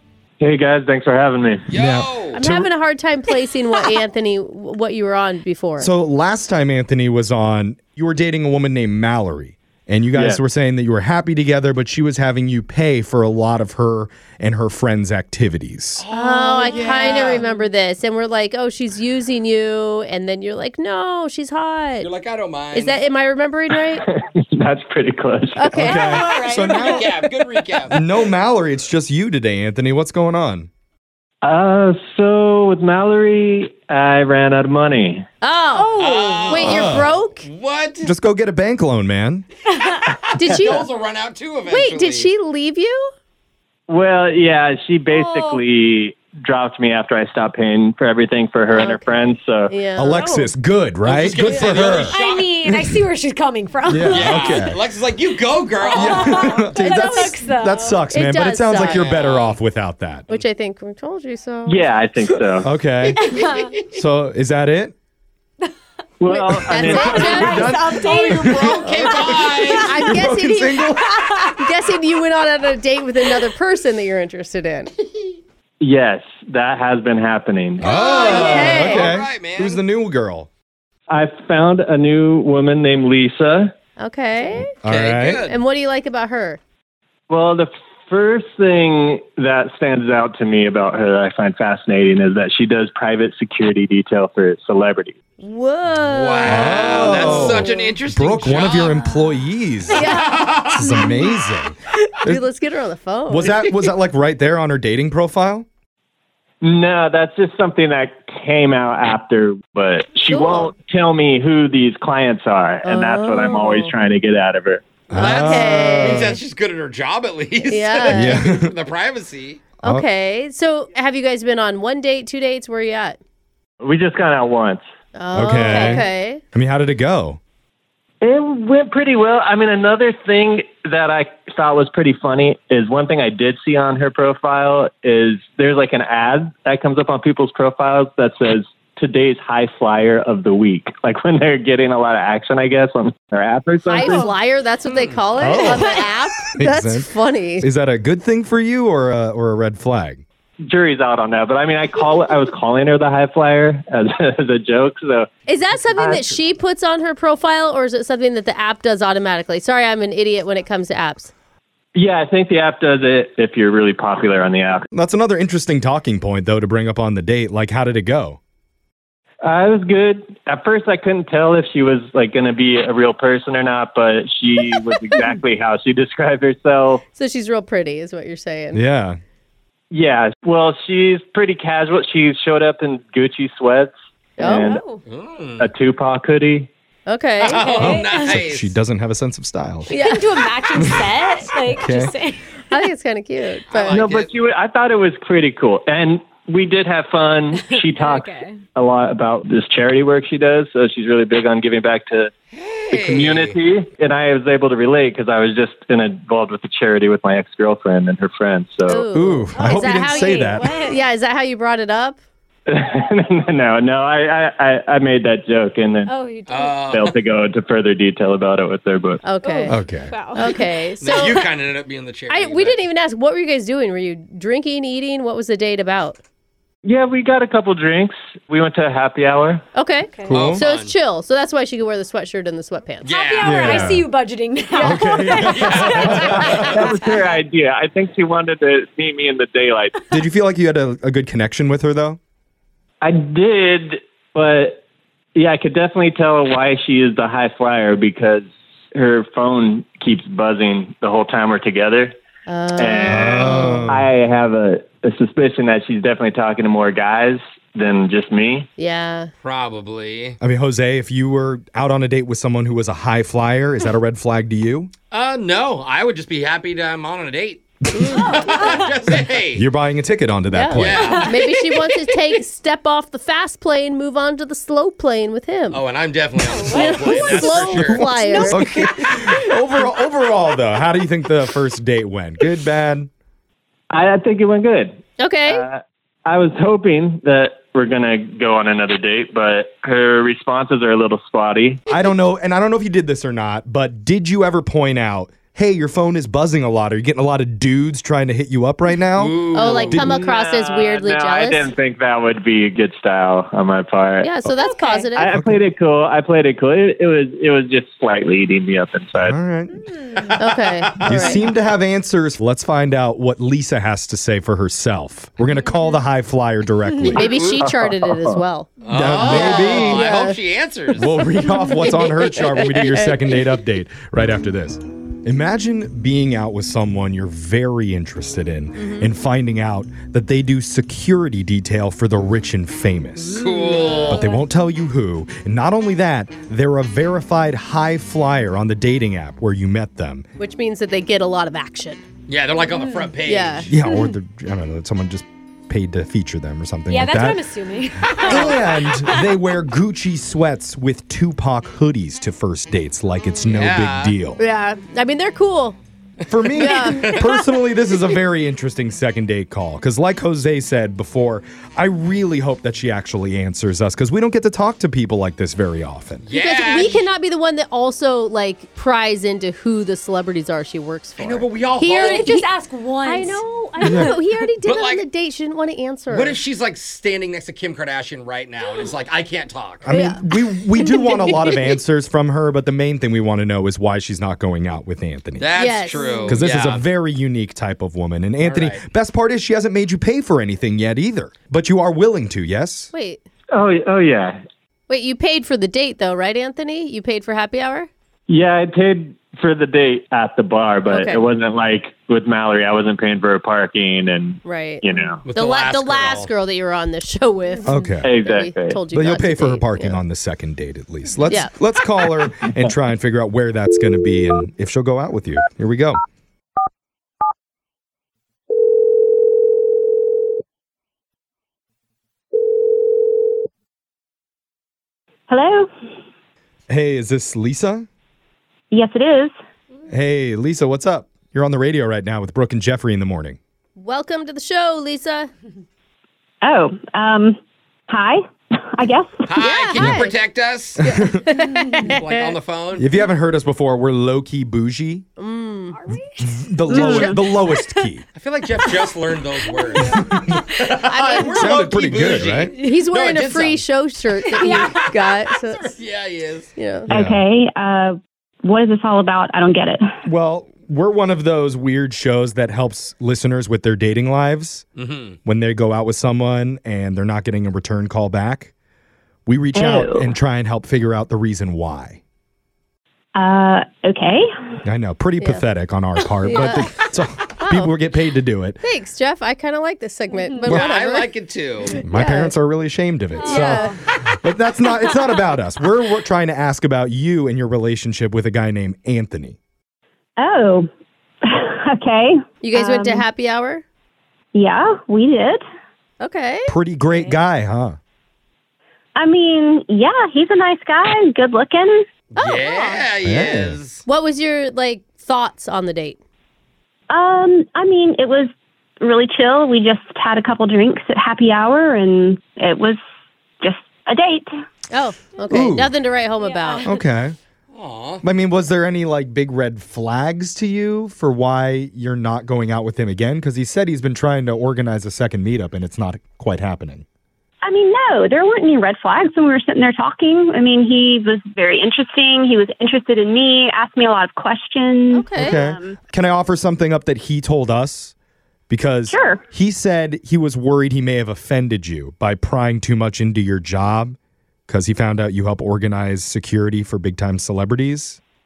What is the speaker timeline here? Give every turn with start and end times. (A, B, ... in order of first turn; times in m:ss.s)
0:00.4-0:01.7 A
0:01.7-0:02.4 B
0:01.7-0:02.7 C
0:02.3-0:05.9 D
0:05.8-0:16.0 C
0:10.1-0:10.4 A
0:16.0-0:17.4 B
0:16.1-0:22.1 D
0:17.4-0:17.6 E
0:22.0-0:23.0 B
0:22.7-0:24.0 D
0:24.0-0:25.8 A
0:25.6-0:26.4 D
0:25.7-0:27.2 C
0:25.8-0:27.0 E
0:26.3-0:28.0 B
0:27.9-0:30.7 C
0:31.4-0:35.2 A
0:35.4-0:35.9 D
0:35.8-0:36.6 E
0:36.0-0:38.1 B
0:36.4-0:37.5 D
0:36.6-0:37.1 C
0:38.0-0:39.4 C
0:39.8-0:42.3 B
0:40.3-0:40.9 D
0:41.6-0:43.1 D
0:43.9-0:49.8 A
0:45.1-0:45.6 E
0:48.7-0:50.4 D
0:50.0-0:52.9 C
0:51.0-0:52.6 B
0:52.0-0:54.4 E
0:53.9-0:54.8 C
0:54.1-0:56.6 B
0:55.8-0:58.0 E
0:55.9-1:00.3 C
0:58.1-0:59.1 D
0:58.8-0:59.6 B
1:00.3-1:01.9 D
1:01.6-1:02.7 A
1:02.6-1:03.3 C
1:03.1-1:03.9 B
1:03.2-1:03.7 E
1:03.9-1:04.9 C
1:06.2-1:07.6 A
1:06.2-1:09.0 D
1:06.7-1:11.1 C
1:07.1-1:09.9 E
1:08.5-1:09.9 B
1:09.8-1:10.9 D
1:11.4-1:14.9 D
1:15.8-1:17.9 A
1:17.8-1:20.5 C
1:17.8-1:19.8 B
1:17.9-1:19.2 D
1:21.1-1:23.7 A
1:24.0-1:24.7 D
1:24.8-1:25.4 C
1:24.8-1:25.6 B
1:25.4-1:26.6 D
1:27.3-1:35.2 A
1:35.4-1:37.9 D
1:35.9-1:39.0 B
1:36.4-1:40.1 C
1:39.9-1:41.4 D
1:40.1-1:40.8 B
1:40.7-1:42.4 C
1:42.2-1:43.6 D
1:43.3-1:45.7 C
1:46.6-1:54.8 A
1:50.3-1:50.7 D
1:52.8-1:53.9 D
1:55.1-1:56.3 C
1:55.1-1:59.6 B
1:55.1-1:56.4 D
1:57.6-1:58.4 D
1:58.1-1:58.7 C
1:59.8-2:03.2 D
2:03.8-2:04.8 A
2:05.1-2:06.4 D
2:05.3-2:07.4 C
2:08.2-2:24.3 A
2:23.9-2:27.6 D
2:24.9-2:25.2 B
2:25.4-2:26.0 C
2:25.6-2:26.0 E
2:26.5-2:30.2 C
2:30.6-2:35.3 A
2:35.4-2:41.3 D
2:35.9-2:36.4 A
2:41.9-2:44.8 A
2:44.9-2:48.4 C
2:49.4-2:57.0 A
2:57.1-2:58.8 D
2:58.7-2:59.2 C
2:59.9-3:04.9 A
3:04.4-3:04.8 D
3:04.7-3:05.0 E
3:05.0-3:05.7 B
3:05.6-3:06.7 A
3:07.1-3:07.7 D
3:07.4-3:08.7 B
3:07.6-3:08.3 E
3:07.8-3:09.9 C
3:09.9-3:12.4 E
3:09.9-3:10.2 D
3:11.7-3:12.1 C
3:12.7-3:14.1 D
3:13.7-3:14.3 B
3:13.9-3:22.3 A
3:17.7-3:18.6 E
3:22.5-3:23.6 B
3:22.9-3:29.0 A
3:28.8-3:32.2 D
3:29.1-3:30.7 C
3:29.5-3:31.0 E
3:32.7-3:36.1 A
3:36.1-3:36.8 E
3:36.5-3:37.2 B
3:36.7-3:39.2 A
3:39.2-3:39.8 D
3:39.4-3:40.6 E
3:39.7-3:40.1 C
3:40.3-3:41.4 D
3:41.0-3:42.8 B
3:42.3-3:46.2 D
3:46.8-3:49.6 A
3:49.7-3:53.1 D
3:50.3-3:50.6 C
3:50.3-3:50.9 B
3:53.0-3:53.9 B
3:53.0-3:56.9 E
3:53.4-3:54.0 C
3:54.8-3:57.0 C
3:55.3-3:56.7 B
3:56.6-4:00.0 A
4:00.1-4:02.2 C
4:03.0-4:04.8 A
4:05.4-4:12.1 A
4:12.5-4:13.8 D
4:12.8-4:18.7 A
4:13.0-4:14.1 C
4:18.8-4:19.3 D
4:19.4-4:20.4 B
4:20.4-4:24.9 C
4:25.1-4:27.6 B
4:27.8-4:28.4 C
4:28.0-4:28.8 E
4:28.2-4:29.6 B
4:29.5-4:31.2 C
4:30.5-4:35.8 D
4:30.7-4:31.6 B
4:31.0-4:32.3 E
4:35.7-4:38.1 B
4:36.4-4:37.5 E
4:36.7-4:38.6 D
4:37.5-4:43.1 C
4:38.2-4:39.4 E
4:43.9-4:51.8 A
4:45.2-4:45.6 D
4:51.9-5:00.2 C
4:59.2-5:00.2 B
4:59.5-5:01.7 D
4:59.9-5:04.4 A
5:04.2-5:05.3 D
5:04.6-5:05.1 E
5:05.1-5:09.4 A
5:05.3-5:05.6 C
5:09.2-5:09.8 C
5:10.2-5:10.8 B
5:10.4-5:11.4 D
5:11.0-5:17.3 C
5:17.1-5:20.4 D
5:17.3-5:17.6 B
5:17.4-5:18.4 A
5:18.8-5:21.2 B
5:18.9-5:20.1 C
5:20.9-5:40.2 C
5:21.7-5:23.1 D
5:28.8-5:29.1 D
5:33.2-5:34.3 B
5:40.4-5:42.0 D
5:42.3-5:43.8 B
5:43.2-5:43.7 D
5:43.7-5:47.4 C
5:46.9-5:49.3 E
5:48.2-5:54.4 C
5:48.2-5:48.6 D
5:53.5-5:54.2 B
5:54.4-5:55.8 D
5:56.3-6:06.2 C
5:56.4-5:57.3 B
5:56.6-5:57.4 D
6:06.2-6:07.1 B
6:06.3-6:12.5 D
6:11.2-6:12.2 B
6:12.0-6:14.1 E
6:13.0-6:16.4 D
6:13.8-6:14.1 C
6:14.6-6:15.0 B
6:16.1-6:19.9 B
6:19.8-6:25.6 C
6:19.9-6:20.2 D
6:25.4-6:26.8 B
6:25.6-6:26.3 D
6:26.2-6:32.9 C
6:28.4-6:28.8 B
6:32.9-6:33.2 D
6:33.5-6:34.4 A
6:34.9-6:37.9 D
6:38.3-6:45.2 A
6:40.9-6:41.2 D
6:44.4-6:50.0 D
6:45.2-6:46.3 B
6:47.6-6:48.1 C
6:48.0-6:48.8 A
6:48.9-6:56.0 C
7:05.3-7:05.7 F
7:06.7-7:07.9 C
7:08.7-7:09.3 F
7:09.9-7:13.4 C
7:13.8-7:15.3 D
7:16.4-7:17.4 F
7:17.9-7:18.2 F
7:18.7-7:19.2 F
7:19.2-7:20.8 B
7:19.4-7:20.2 D
7:19.8-7:20.0 C
7:20.8-7:21.2 C
7:20.8-7:22.2 D
7:21.8-7:22.8 B
7:22.8-7:25.0 C
7:25.2-7:25.8 D
7:25.7-7:26.2 E
7:26.2-7:28.0 C
7:26.7-7:27.2 F
7:28.1-7:33.6 B
7:29.8-7:30.1 E
7:29.8-7:30.2 C
7:30.8-7:31.7 D
7:31.3-7:32.5 C
7:32.6-7:35.7 D
7:34.2-7:34.9 E
7:35.5-7:36.5 B
7:36.6-7:36.9 D
7:36.9-7:37.2 C
7:36.9-7:39.8 F
7:40.0-7:44.6 C
7:44.8-7:45.2 B
7:45.2-7:48.5 C
7:49.3-7:52.0 C
7:49.5-7:50.1 F
7:53.2-7:54.3 F
7:54.6-7:58.6 C
7:55.2-7:55.4 D
7:56.2-7:56.7 D
7:57.4-7:57.7 D
7:58.6-8:01.1 D
8:00.4-8:01.8 B
8:01.8-8:02.3 D
8:01.8-8:09.4 C
8:03.2-8:03.8 E
8:03.2-8:03.7 D
8:10.2-8:10.7 F
8:11.2-8:13.0 F
8:12.4-8:13.6 D
8:14.3-8:15.4 F
8:16.0-8:16.5 D
8:16.5-8:17.8 C
8:19.0-8:21.8 F
8:22.1-8:23.8 B
8:22.2-8:22.8 D
8:23.0-8:23.6 C
8:23.8-8:26.0 D
8:26.9-8:28.3 F
8:28.8-8:32.8 F
8:33.4-8:34.3 F
8:34.7-8:36.7 D
8:35.3-8:35.7 C
8:36.2-8:36.7 E
8:36.6-8:37.2 C
8:37.5-8:38.0 B
8:38.0-8:46.8 C
8:47.4-8:55.8 F
8:54.9-8:55.4 D
8:55.1-8:57.9 C
8:58.5-9:04.0 C
8:58.9-8:59.2 F
9:04.5-9:08.0 C